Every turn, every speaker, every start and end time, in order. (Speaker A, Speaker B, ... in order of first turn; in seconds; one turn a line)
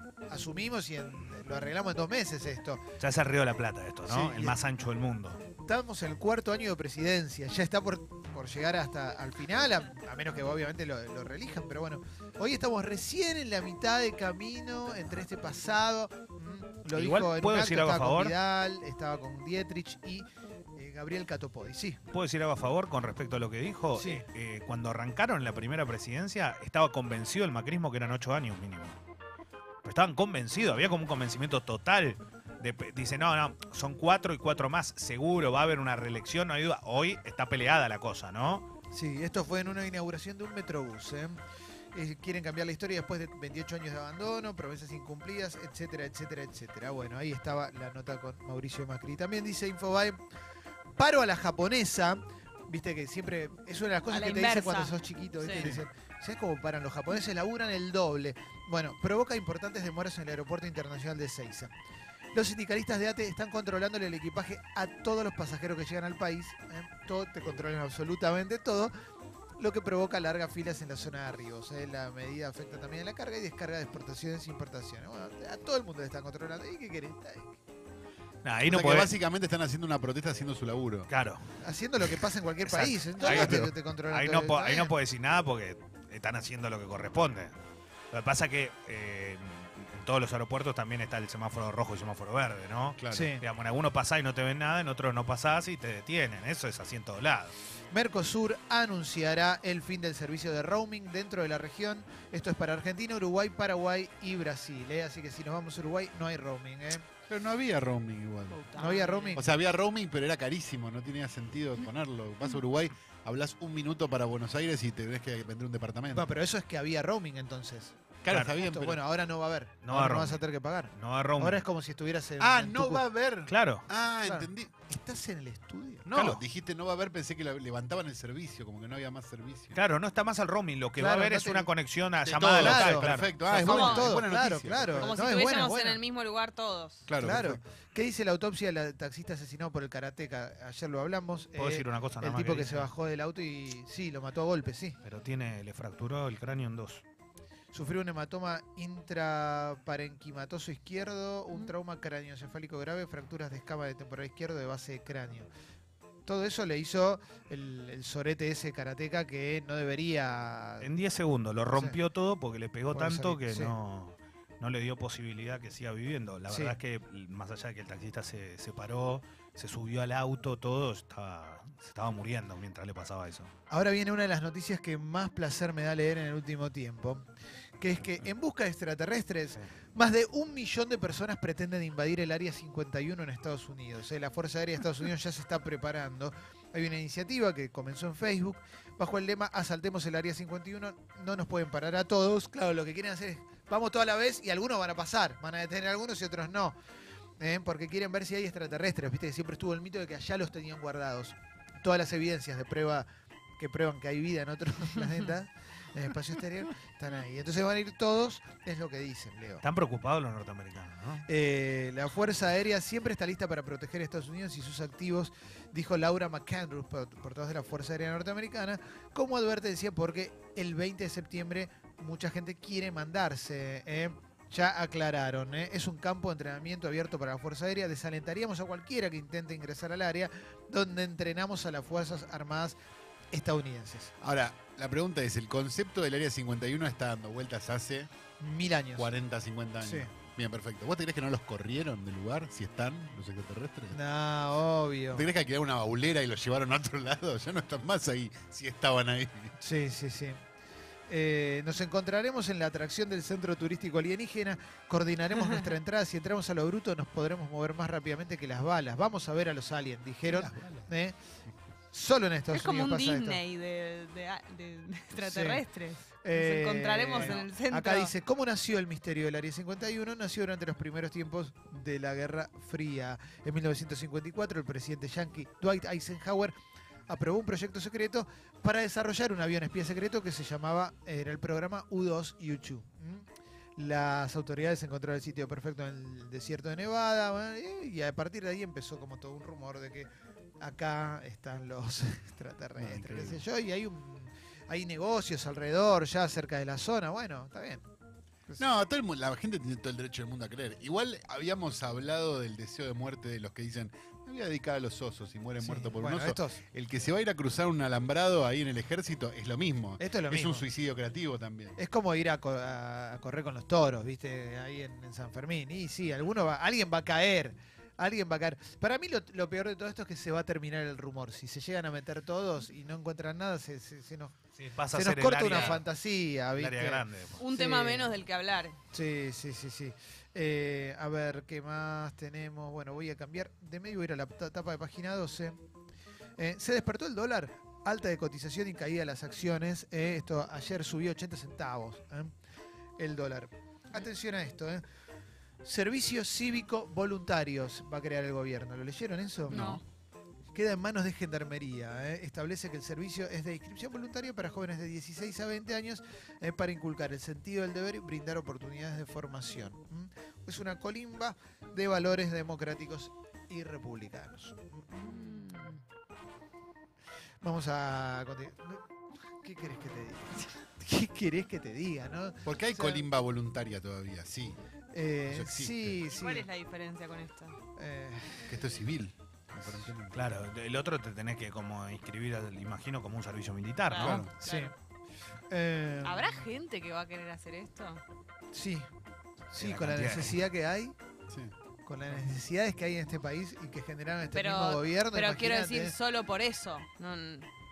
Speaker A: 0.3-2.8
Speaker B: 3.0-5.4
Speaker A: 4.1-4.6
Speaker A: 5.6-22.0
Speaker B: 16.9-18.4
Speaker B: 22.1-29.0
Speaker A: 23.9-24.2
Speaker B: 29.8-38.7
Speaker A: 38.9-41.4
Speaker A: 41.9-50.2
Speaker A: 51.0-61.7
Speaker C: 54.1-55.8
Speaker A: 62.3-68.9
Speaker A: 69.6-77.6
Speaker B: 78.4-79.1
Speaker D: 78.7-81.1
Speaker B: 81.1-81.4
Speaker A: 81.6-84.9
Speaker B: 82.6-87.5
Speaker B: 88.1-97.5
Speaker D: 93.0-93.3
Speaker A: 93.1-93.4
Speaker A: 97.9-107.1
Speaker D: 107.3-108.6
Speaker C: 108.5-109.4
Speaker A: 108.7-109.5
Speaker D: 109.3-116.3
Speaker A: 116.1-117.9
Speaker D: 118.2-119.0
Speaker B: 118.3-118.5
Speaker A: 118.5-123.1
Speaker B: 119.8-121.6
Speaker D: 122.4-124.7
Speaker B: 123.5-123.8
Speaker A: 124.2-126.1
Speaker D: 126.1-129.8
Speaker B: 126.1-126.4
Speaker B: 129.7-133.3
Speaker A: 130.9-131.7
Speaker D: 132.2-135.3
Speaker A: 132.6-136.0
Speaker C: 133.5-134.1
Speaker C: 135.0-137.0
Speaker D: 137.1-137.6
Speaker A: 137.2-145.0
Speaker B: 141.5-142.9
Speaker B: 145.0-147.0
Speaker A: 147.7-155.5
Speaker A: 156.2-160.9
Speaker B: 160.8-173.5
Speaker A: 162.9-163.7
Speaker A: 166.5-166.8
Speaker A: 173.7-177.2
Speaker A: 177.8-196.7
Speaker A: 197.4-203.1
Speaker A: 203.6-209.6
Speaker B: 209.6-211.2
Speaker A: 211.3-232.8
Speaker A: 233.3-234.1
Speaker D: 234.2-238.1
Speaker A: 238.4-239.1
Speaker D: 239.0-244.0
Speaker A: 239.8-240.1
Speaker A: 243.9-245.2
Speaker D: 245.1-249.5
Speaker A: 249.6-250.4
Speaker A: 251.1-261.1
Speaker A: 261.9-263.4
Speaker C: 262.5-268.1
Speaker A: 265.2-265.6
Speaker A: 266.2-276.5
Speaker A: 277.1-283.2
Speaker A: 283.8-290.1
Speaker A: 290.6-297.8
Speaker D: 292.8-293.4
Speaker D: 298.6-311.8
Speaker A: 305.6-306.6
Speaker A: 310.0-310.7
Speaker A: 311.8-324.4
Speaker B: 324.6-325.8
Speaker A: 324.9-328.1
Speaker C: 325.5-325.8
Speaker B: 326.5-327.4
Speaker C: 327.4-328.8
Speaker A: 328.9-335.6
Speaker A: 336.4-342.3
Speaker A: 343.0-344.8
Speaker A: 345.6-349.8
Speaker C: 349.5-349.8
Speaker A: 350.5-364.9
Speaker C: 364.9-365.8
Speaker A: 367.4-368.8
Speaker A: 369.4-373.1
Speaker D: 372.4-374.6
Speaker A: 374.9-376.5
Speaker D: 375.3-376.0
Speaker C: 376.1-377.6
Speaker A: 377.8-378.6
Speaker D: 378.5-380.2
Speaker A: 379.6-379.9
Speaker B: 380.1-384.1
Speaker C: 383.9-384.7
Speaker D: 384.0-384.3
Speaker A: 384.1-384.7
Speaker A: 385.5-386.4
Speaker C: 386.0-388.0
Speaker A: 388.5-388.9
Speaker A: 389.5-390.9
Speaker B: 389.6-390.4
Speaker A: 391.8-395.9
Speaker C: 394.3-397.5